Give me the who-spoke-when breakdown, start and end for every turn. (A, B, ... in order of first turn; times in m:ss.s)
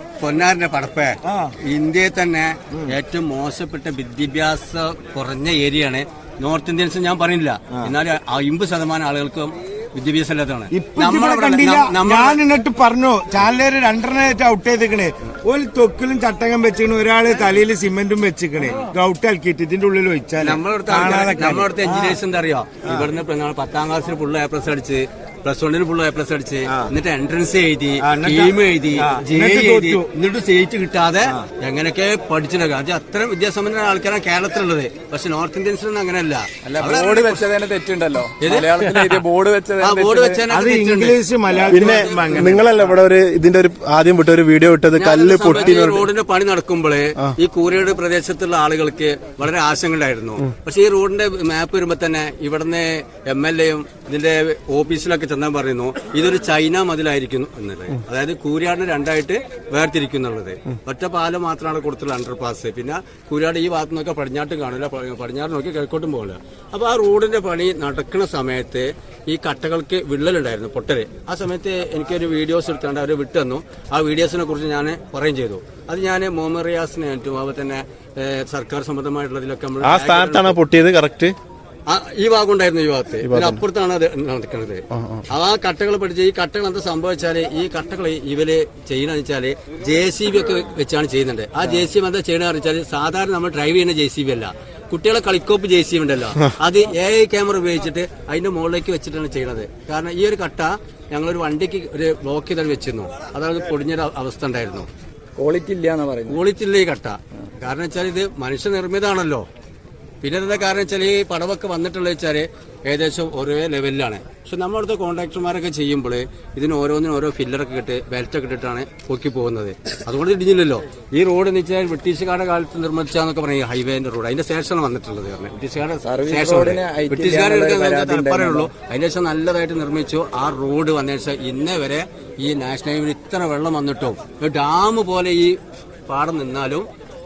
0:00.2-0:12.4 A
0:10.7-0:22.2 B
0:20.4-0:37.6 A
0:28.0-0:30.1 B
0:36.6-0:40.5 C
0:38.4-0:42.6 A
0:40.5-0:42.7 B
0:41.7-0:46.1 D
0:45.0-1:20.6 A
1:19.8-1:21.3 D
1:21.9-1:44.9 A
1:23.2-1:23.6 D
1:24.9-1:25.3 D
1:45.4-1:46.4 C
1:46.2-1:49.5 A
1:50.2-2:16.9 A
2:06.0-2:08.7 C